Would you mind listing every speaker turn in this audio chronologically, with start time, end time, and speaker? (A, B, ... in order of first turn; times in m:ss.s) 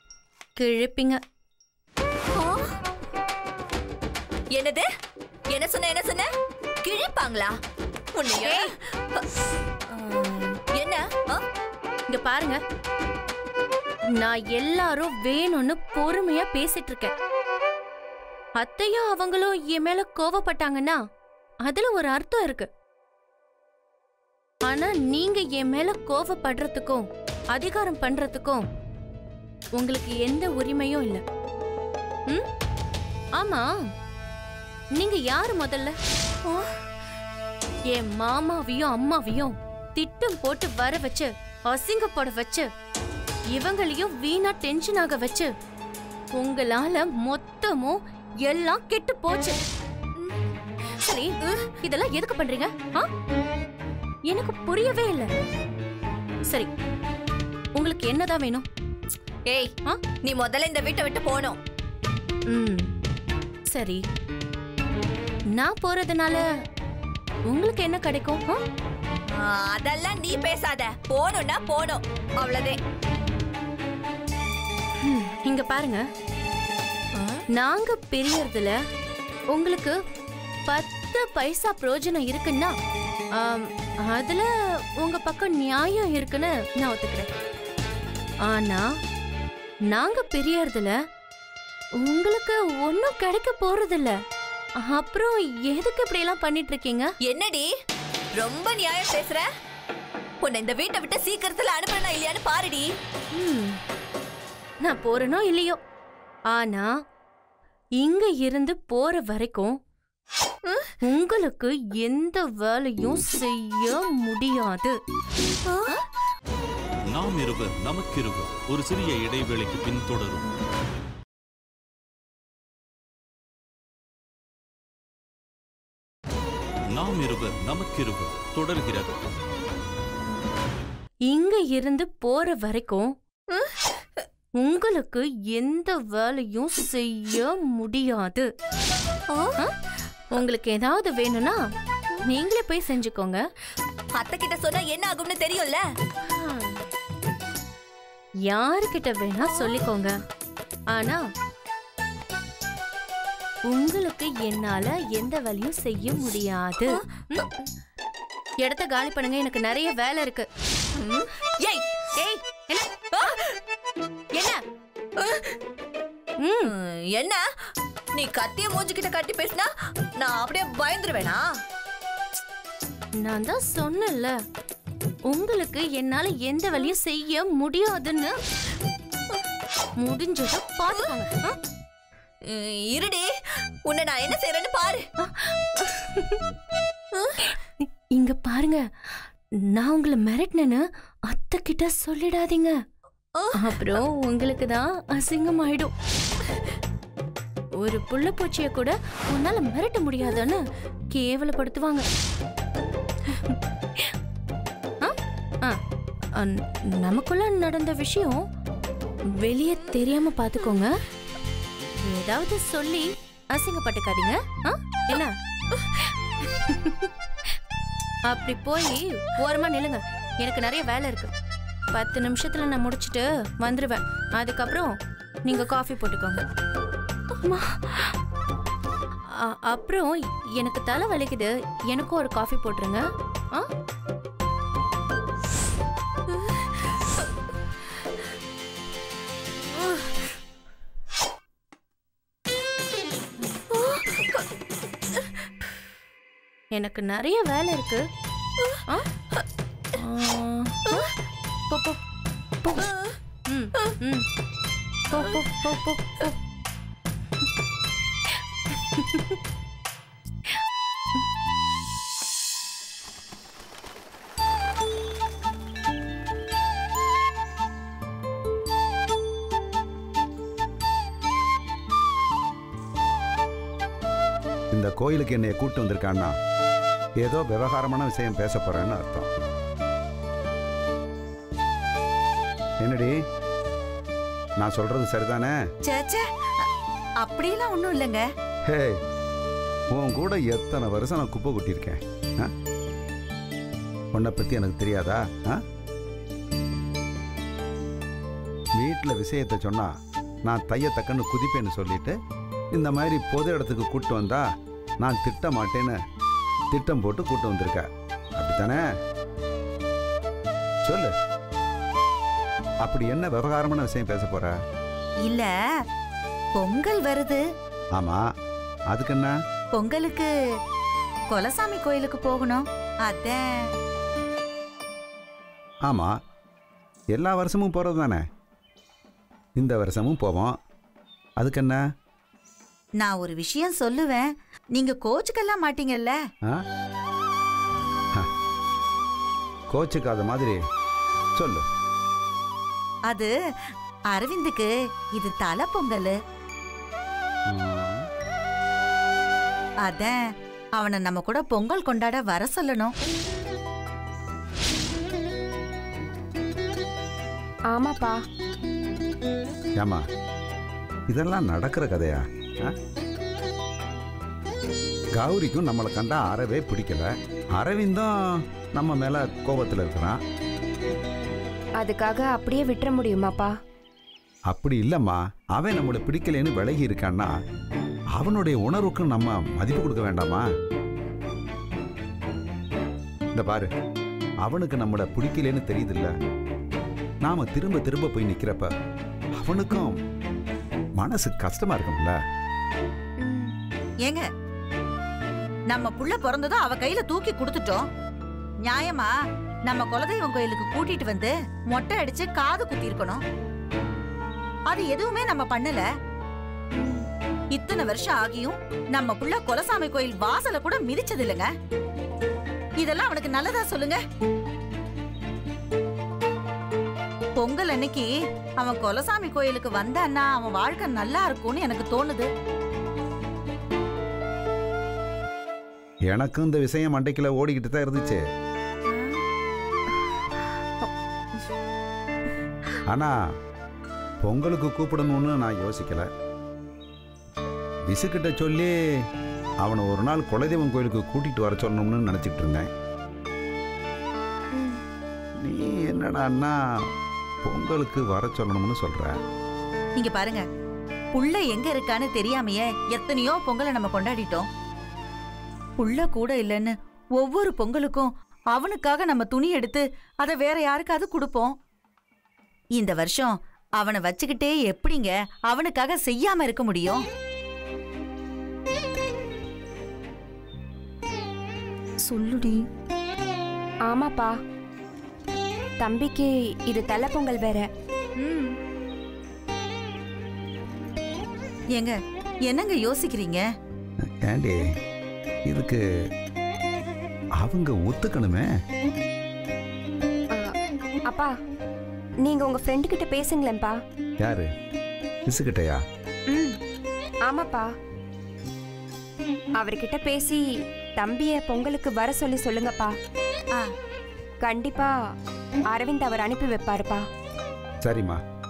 0:00.6-0:01.2 A
0:02.3-0:02.7 B
0:04.5-0:04.9 B
0:05.5-0:06.3 B
0:06.8-0:07.6 B
0:08.2-0:09.2 B
0:08.4-0:08.7 A
0:09.9-0:11.4 B
0:12.1-0:12.6 A
0:14.1-0:17.1 A
0:18.6-0:21.0 A
0:21.6-0:22.7 A
0:24.7-0:28.6 A
0:29.8-0:31.2 A
0:33.4-0:33.7 A
0:35.0-0:36.0 A
0:36.5-0:36.8 B
0:37.9-0:42.7 A
0:43.5-0:45.5 A
0:46.4-0:49.6 A
0:51.0-0:53.1 A
0:54.3-0:55.3 A
0:57.8-0:58.7 A
0:59.5-0:59.7 B
1:00.2-1:01.6 B
1:02.5-1:02.9 A
1:03.7-1:04.0 A
1:05.5-1:06.4 A
1:07.5-1:08.6 A
1:09.4-1:12.8 B
1:15.0-1:16.0 A
1:17.2-1:17.4 B
1:17.5-1:18.8 A
1:19.5-1:20.0 A
1:20.7-1:22.7 A
1:23.4-1:24.5 A
1:25.0-1:27.3 A
1:28.5-1:28.9 A
1:29.9-1:30.9 A
1:32.0-1:34.1 A
1:34.8-1:37.1 A
1:37.2-1:37.7 B
1:38.4-1:39.4 B
1:40.4-1:42.9 B
1:43.3-1:43.8 A
1:44.8-1:45.8 A
1:46.5-1:46.9 A
1:48.0-1:49.8 A
1:51.0-1:55.0 A
1:55.7-1:56.0 B
1:57.1-2:00.5 C
2:06.9-2:09.2 C
2:11.3-2:13.1 A
2:14.6-2:18.5 A
2:19.3-2:19.6 B
2:20.3-2:21.6 A
2:22.2-2:23.4 A
2:24.2-2:25.8 B
2:26.3-2:26.8 A
2:28.5-2:30.1 A
2:30.9-2:31.2 A
2:33.7-2:37.4 A
2:38.6-2:40.5 A
2:41.0-2:41.9 B
2:42.2-2:42.8 A
2:43.0-2:43.6 B
2:45.2-2:45.5 B
2:46.4-2:46.7 A
2:46.6-2:47.4 B
2:48.2-2:51.5 B
2:53.2-2:54.3 A
2:55.3-2:58.4 A
3:00.0-3:01.6 A
3:02.4-3:03.3 B
3:03.9-3:05.0 B
3:05.2-3:06.4 A
3:07.2-3:07.4 B
3:07.4-3:08.8 A
3:09.8-3:12.8 A
3:13.4-3:13.8 B
3:13.5-3:15.9 A
3:17.8-3:20.6 A
3:21.1-3:22.1 A
3:23.3-3:24.2 A
3:25.0-3:25.8 A
3:26.4-3:28.4 A
3:29.4-3:30.9 A
3:32.0-3:37.5 A
3:38.3-3:41.3 A
3:41.9-3:44.9 A
3:45.4-3:46.4 A
3:47.4-3:48.2 A
3:49.3-3:53.7 A
4:03.7-4:04.4 B
4:06.7-4:08.0 A
4:10.0-4:11.1 A
4:11.7-4:12.0 A
4:12.6-4:12.9 A
4:13.5-4:14.3 A
4:15.1-4:16.4 A
4:18.7-4:19.4 A
4:34.7-4:36.4 D
4:37.2-4:39.3 D
4:42.8-4:43.2 D
4:44.6-4:45.6 D
4:45.8-4:46.7 E
4:47.2-4:48.3 E
4:48.7-4:49.0 D
4:49.9-4:52.5 D
4:54.1-4:55.6 D
4:58.8-4:59.9 D
5:00.5-5:02.2 D
5:02.7-5:04.5 D
5:05.0-5:06.0 D
5:06.7-5:08.8 D
5:10.9-5:11.1 D
5:12.8-5:14.6 D
5:15.2-5:15.7 E
5:16.6-5:17.4 E
5:18.0-5:18.2 D
5:18.9-5:19.3 D
5:19.7-5:20.3 E
5:21.3-5:23.7 E
5:25.9-5:26.1 D
5:27.1-5:28.2 D
5:29.6-5:30.6 D
5:31.4-5:31.8 D
5:33.0-5:36.2 E
5:39.7-5:40.6 D
5:41.4-5:41.6 D
5:44.1-5:46.2 E
5:47.5-5:48.1 D
5:49.8-5:50.2 E
5:50.8-5:52.9 E
5:57.7-5:58.2 F
6:01.1-6:02.8 D
6:05.2-6:10.2 D
6:11.8-6:13.5 F
6:14.5-6:17.3 D
6:18.2-6:20.5 D
6:23.4-6:23.7 D
6:24.4-6:26.1 D
6:27.2-6:28.7 D
6:29.4-6:30.0 D
6:31.0-6:32.2 D
6:33.2-6:33.5 F
6:35.7-6:37.9 E
6:38.6-6:39.1 E
6:39.7-6:43.2 E
6:44.7-6:45.9 E
6:46.8-6:47.0 F
6:47.5-6:51.5 E
6:52.8-6:54.0 E
6:57.4-7:02.3 E
7:06.1-7:08.2 D
7:12.9-7:13.2 D
7:14.2-7:16.1 D
7:17.9-7:18.7 D
7:19.6-7:22.7 D
7:24.5-7:24.8 F
7:25.4-7:26.6 D
7:27.4-7:29.2 D
7:30.0-7:30.4 E
7:31.2-7:34.5 E
7:35.8-7:41.6 E
7:42.8-7:47.0 E
7:52.1-7:52.6 F
7:53.9-7:54.3 F
7:55.8-7:57.7 F
7:58.2-7:58.6 E
8:01.8-8:03.5 E
8:04.0-8:04.7 D
8:05.5-8:05.8 D
8:07.4-8:08.5 D
8:12.2-8:13.8 F
8:14.2-8:14.5 D
8:15.3-8:15.8 D
8:16.3-8:16.6 F
8:17.3-8:17.7 F
8:19.6-8:20.4 F
8:21.0-8:22.9 F
8:24.4-8:25.0 F
8:25.7-8:27.0 F
8:27.8-8:28.2 D